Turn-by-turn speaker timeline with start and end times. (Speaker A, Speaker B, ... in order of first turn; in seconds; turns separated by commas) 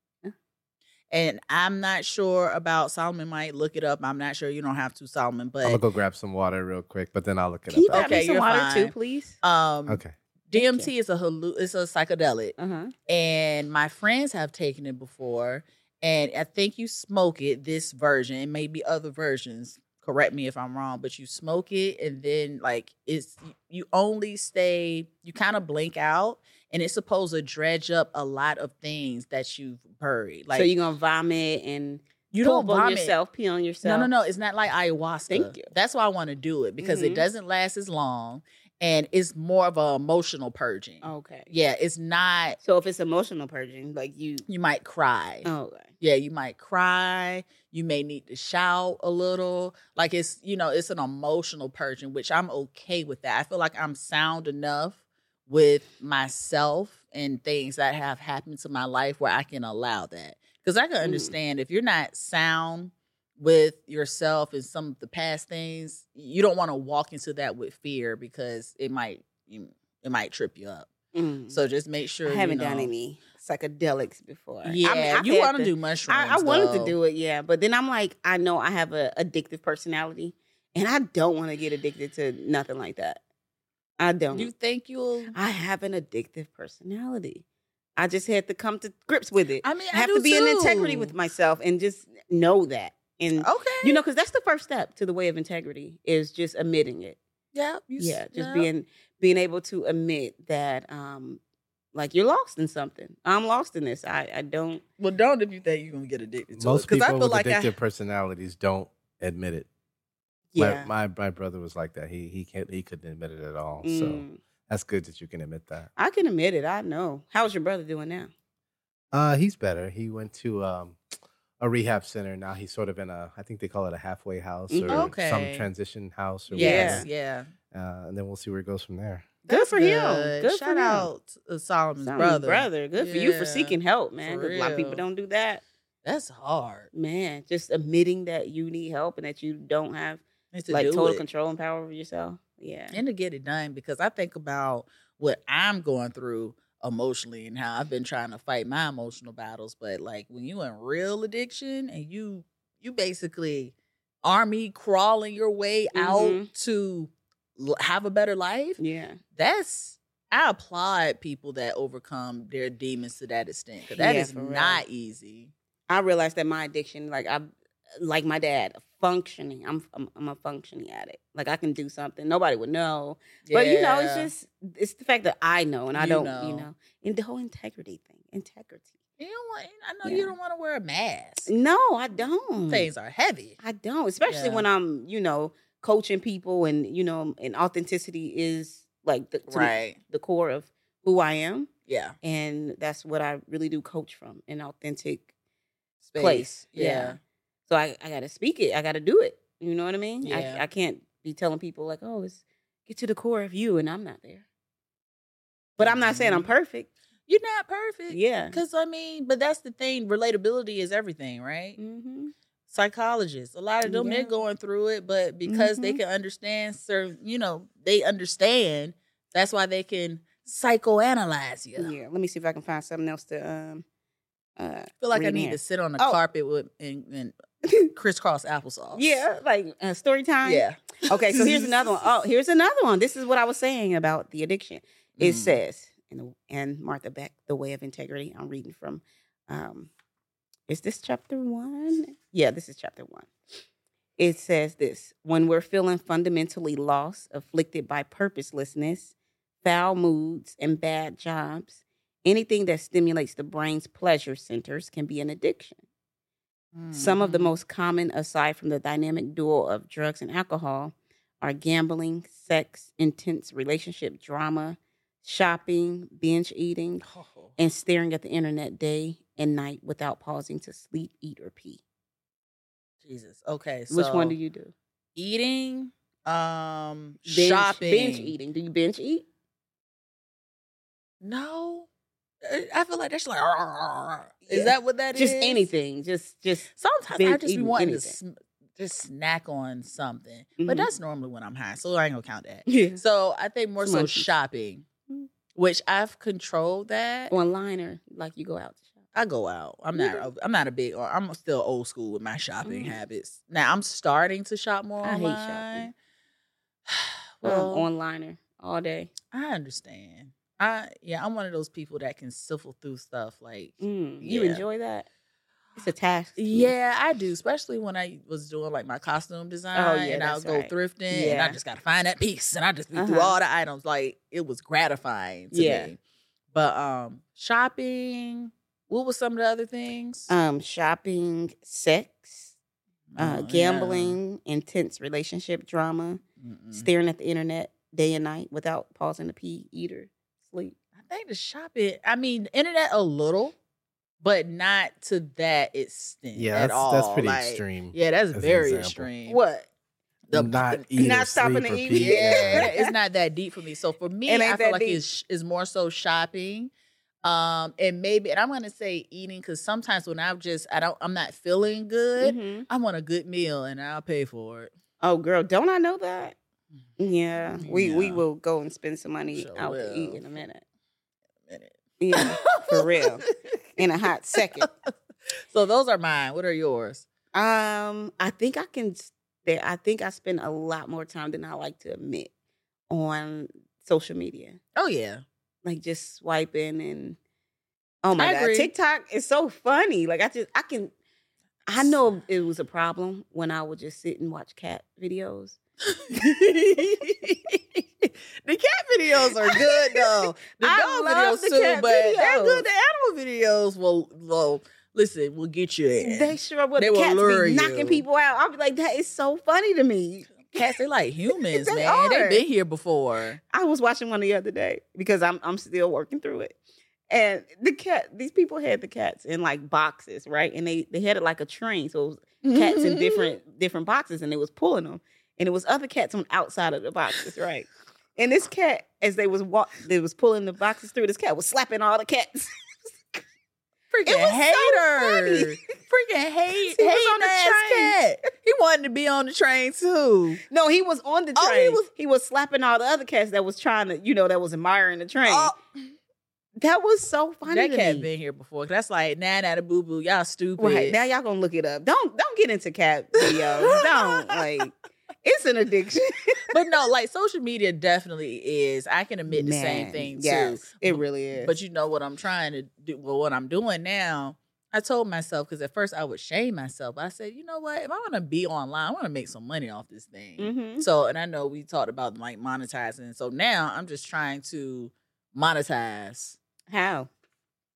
Speaker A: 1.1-5.8, Speaker B: 5.6-8.2, Speaker C: 7.7-9.3, Speaker A: 7.9-12.6, Speaker B: 9.9-10.1, Speaker C: 10.5-10.9, Speaker C: 12.6-12.9, Speaker A: 13.1-30.7, Speaker C: 30.5-34.1, Speaker A: 32.3-33.1, Speaker A: 33.8-42.6, Speaker C: 35.3-35.7, Speaker C: 36.8-37.2, Speaker C: 41.0-41.5, Speaker C: 42.6-44.5, Speaker A: 44.5-45.5, Speaker C: 45.4-45.9, Speaker A: 46.0-70.9, Speaker C: 61.0-61.3, Speaker C: 71.1-71.6, Speaker A: 71.5-72.9, Speaker C: 72.2-83.2, Speaker A: 74.6-77.0, Speaker C: 84.0-84.5, Speaker A: 84.3-85.3, Speaker C: 85.3-87.4, Speaker C: 88.0-97.2, Speaker A: 89.6-91.1, Speaker A: 93.4-94.0, Speaker A: 97.5-98.7, Speaker C: 98.0-101.4, Speaker C: 101.9-104.8, Speaker A: 105.0-107.7, Speaker B: 106.5-109.7, Speaker C: 110.5-110.9, Speaker B: 110.6-115.9, Speaker C: 113.8-114.4, Speaker C: 116.0-118.3, Speaker B: 119.1-121.0, Speaker B: 121.6-127.1, Speaker C: 124.7-125.1, Speaker A: 124.9-125.7, Speaker A: 126.5-127.5, Speaker C: 126.5-127.1, Speaker B: 127.7-129.3, Speaker C: 129.5-131.1, Speaker A: 129.5-135.0, Speaker C: 132.0-135.6, Speaker A: 136.0-136.9, Speaker C: 136.9-143.0, Speaker A: 140.5-141.2, Speaker A: 142.9-158.8, Speaker C: 155.9-156.5, Speaker C: 158.8-159.2, Speaker A: 159.3-165.5, Speaker C: 163.9-164.8, Speaker C: 165.9-178.9, Speaker A: 173.4-174.3, Speaker A: 175.9-176.7, Speaker A: 179.2-181.5, Speaker C: 180.0-180.3, Speaker C: 181.5-182.9, Speaker A: 182.7-183.6, Speaker C: 183.6-191.7, Speaker A: 184.3-184.7, Speaker A: 189.5-190.0, Speaker A: 191.9-192.1, Speaker C: 192.2-195.3, Speaker A: 196.0-197.2, Speaker C: 196.2-204.4, Speaker A: 200.2-200.6, Speaker C: 205.8-206.9, Speaker A: 205.8-206.5, Speaker A: 207.3-211.8, Speaker C: 208.1-208.6, Speaker C: 211.8-212.3, Speaker A: 212.7-221.9, Speaker C: 213.8-214.3, Speaker C: 215.4-216.0, Speaker C: 221.8-223.8, Speaker C: 224.6-226.2, Speaker A: 225.0-227.3, Speaker A: 227.9-229.2, Speaker C: 228.9-239.9, Speaker A: 230.4-231.9, Speaker A: 235.2-235.6, Speaker C: 240.7-243.3, Speaker C: 244.2-255.8, Speaker A: 256.7-257.5, Speaker C: 256.9-267.0, Speaker A: 267.0-267.5, Speaker C: 267.6-271.8, Speaker A: 273.0-274.3, Speaker C: 273.9-274.7, Speaker A: 275.1-278.4, Speaker C: 277.2-279.2, Speaker A: 281.2-281.9, Speaker A: 282.4-285.7, Speaker C: 284.4-288.1, Speaker A: 286.8-294.8, Speaker C: 290.6-290.9, Speaker C: 292.7-293.0, Speaker C: 293.8-294.3, Speaker A: 295.5-297.3, Speaker C: 297.3-298.9, Speaker A: 299.1-305.9, Speaker C: 299.9-300.3, Speaker C: 302.6-303.0, Speaker C: 305.0-305.9, Speaker A: 306.9-307.9, Speaker C: 307.4-309.1, Speaker A: 309.3-314.6, Speaker C: 313.8-315.1, Speaker C: 315.8-316.7, Speaker A: 316.4-326.0, Speaker C: 319.7-321.6, Speaker C: 322.9-323.4, Speaker C: 325.5-325.9, Speaker A: 326.5-330.3, Speaker C: 330.3-332.5, Speaker A: 333.1-334.2, Speaker C: 333.2-336.2, Speaker A: 336.4-336.9, Speaker C: 336.7-340.7, Speaker A: 341.0-343.5, Speaker A: 344.2-349.4, Speaker B: 346.3-349.1, Speaker C: 349.3-349.7, Speaker A: 350.3-350.8, Speaker B: 350.3-352.7, Speaker C: 351.0-352.9, Speaker A: 351.9-356.7, Speaker C: 354.3-355.0, Speaker A: 357.2-364.7, Speaker C: 362.2-362.6, Speaker C: 365.0-366.4, Speaker C: 367.0-370.6, Speaker A: 367.6-368.2, Speaker A: 369.3-370.4, Speaker A: 371.5-373.6, Speaker C: 372.0-373.2, Speaker C: 373.8-374.7, Speaker A: 375.5-377.1, Speaker C: 377.3-382.3, Speaker C: 382.9-384.6, Speaker A: 384.8-385.2, Speaker C: 385.6-387.2, Speaker C: 388.0-390.9, Speaker A: 388.2-388.7, Speaker C: 391.7-395.6, Speaker A: 395.9-408.0, Speaker C: 399.4-402.6, Speaker C: 406.0-410.6, Speaker A: 410.5-413.4, Speaker C: 411.4-412.4, Speaker C: 413.5-416.6, Speaker C: 417.1-433.2, Speaker A: 422.4-423.3, Speaker A: 433.9-440.4, Speaker C: 434.1-435.5, Speaker C: 436.6-438.0, Speaker C: 440.5-445.5, Speaker A: 441.4-441.9, Speaker A: 445.2-445.6, Speaker C: 446.6-448.1, Speaker A: 447.4-451.0, Speaker C: 450.6-454.7, Speaker A: 453.2-454.4, Speaker C: 455.2-456.4, Speaker A: 456.5-476.4, Speaker C: 459.3-461.5, Speaker C: 470.4-470.9, Speaker C: 476.7-477.1